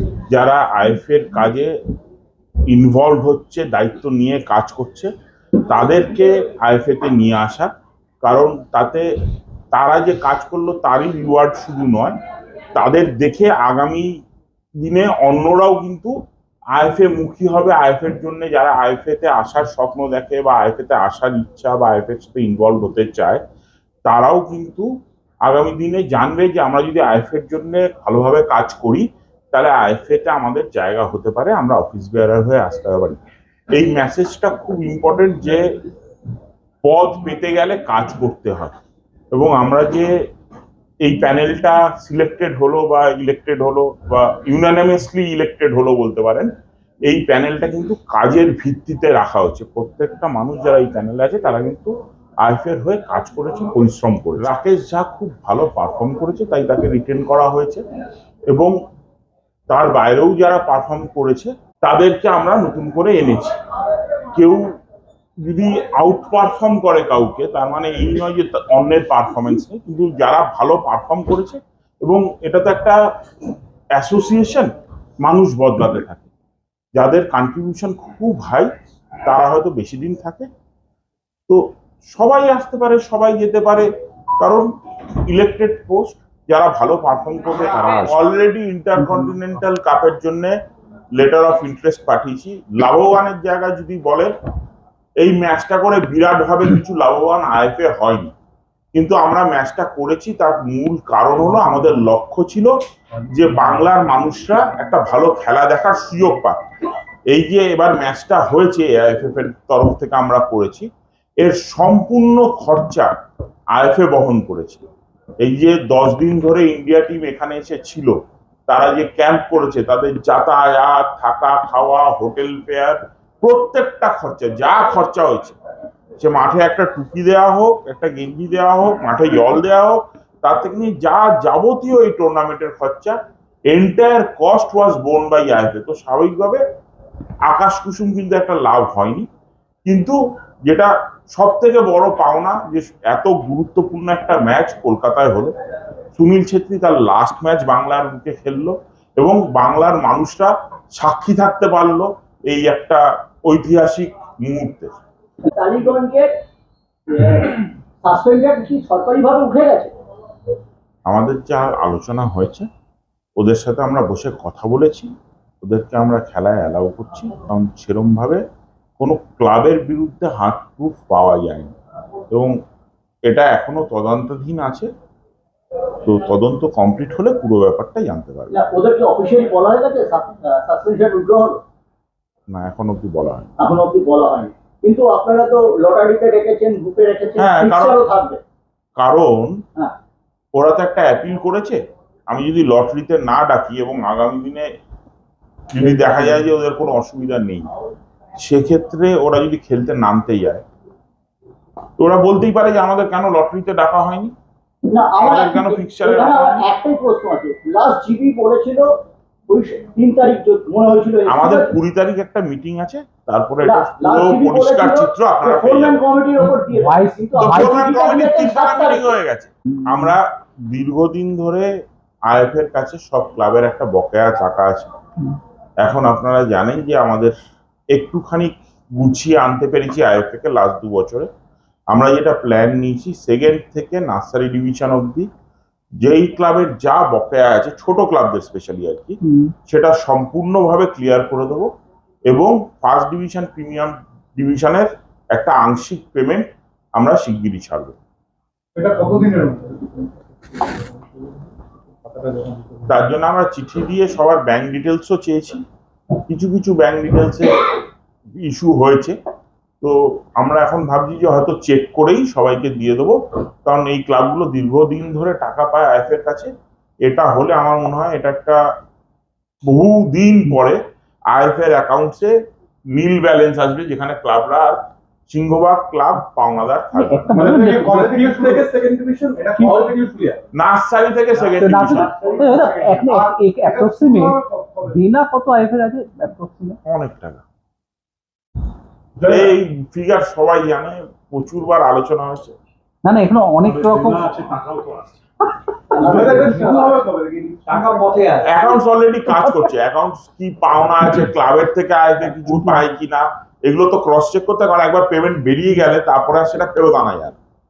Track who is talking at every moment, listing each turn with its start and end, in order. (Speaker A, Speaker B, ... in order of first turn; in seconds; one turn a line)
Speaker A: 0.3-1.7
Speaker A: 2.7-5.1
Speaker A: 5.7-7.7
Speaker A: 8.2-9.1
Speaker A: 9.7-12.2
Speaker A: 12.8-14.1
Speaker A: 14.8-16.1
Speaker A: 16.8-23.4
Speaker A: 24.1-24.9
Speaker A: 25.4-33.2
Speaker A: 33.7-35.6
Speaker A: 36.8-38.7
Speaker A: 39.3-40.1
Speaker A: 41.0-46.5
Speaker A: 47.1-51.9
Speaker A: 52.4-57.8
Speaker A: 59.7-63.5
Speaker A: 64.3-64.7
Speaker A: 65.4-73.0
Speaker A: 74.0-74.7
Speaker A: 75.2-76.3
Speaker A: 77.0-78.7
Speaker A: 79.2-80.5
Speaker A: 82.1-83.9
Speaker A: 84.4-84.7
Speaker A: 85.3-90.5
Speaker A: 91.2-94.3
Speaker A: 95.2-98.3
Speaker A: 99.0-102.7
Speaker A: 103.2-106.6
Speaker A: 107.3-110.9
Speaker A: 111.4-113.1
Speaker A: 113.8-114.8
Speaker A: 115.4-118.2
Speaker A: 118.7-125.6
Speaker A: 126.2-133.2
Speaker A: 133.7-136.6
Speaker A: 137.5-139.3
Speaker A: 139.9-140.2
Speaker A: 140.7-145.5
Speaker A: 146.2-154.9
Speaker B: 155.5-156.3
Speaker B: 157.1-159.9
Speaker A: 161.1-162.7
Speaker A: 163.4-165.1
Speaker A: 165.6-168.4
Speaker A: 169.0-171.7
Speaker A: 173.3-174.9
Speaker A: 176.0-178.6
Speaker B: 178.5-181.6
Speaker A: 182.5-183.5
Speaker B: 183.6-188.4
Speaker A: 187.4-188.0
Speaker A: 189.0-189.6
Speaker A: 190.6-194.7
Speaker A: 195.7-197.7
Speaker A: 198.4-200.6
Speaker A: 202.0-204.3
Speaker B: 204.9-208.9
Speaker A: 205.2-206.6
Speaker B: 209.5-211.7
Speaker A: 211.3-216.0
Speaker B: 213.6-219.1
Speaker C: 216.4-217.9
Speaker A: 217.4-221.7
Speaker A: 222.3-224.9
Speaker A: 225.8-227.3
Speaker A: 227.9-231.3
Speaker A: 231.9-235.3
Speaker A: 236.0-241.7
Speaker C: 239.2-239.5
Speaker A: 242.3-248.0
Speaker D: 248.8-250.9
Speaker D: 252.1-252.9
Speaker A: 252.9-255.6
Speaker A: 256.3-257.6
Speaker A: 258.4-259.2
Speaker A: 259.8-266.5
Speaker A: 267.1-268.6
Speaker A: 269.7-270.8
Speaker A: 271.3-272.3
Speaker A: 272.9-274.8
Speaker A: 275.3-277.4
Speaker C: 276.9-278.6
Speaker D: 277.3-280.4
Speaker C: 279.6-279.9
Speaker A: 280.5-282.1
Speaker C: 281.5-286.8
Speaker D: 282.0-285.0
Speaker A: 286.9-287.4
Speaker D: 289.2-289.5
Speaker A: 289.2-292.5
Speaker C: 293.0-294.6
Speaker D: 293.6-295.1
Speaker C: 295.9-296.7
Speaker D: 295.9-298.2
Speaker B: 295.9-297.0
Speaker C: 297.9-298.6
Speaker A: 298.4-307.4
Speaker C: 299.3-299.7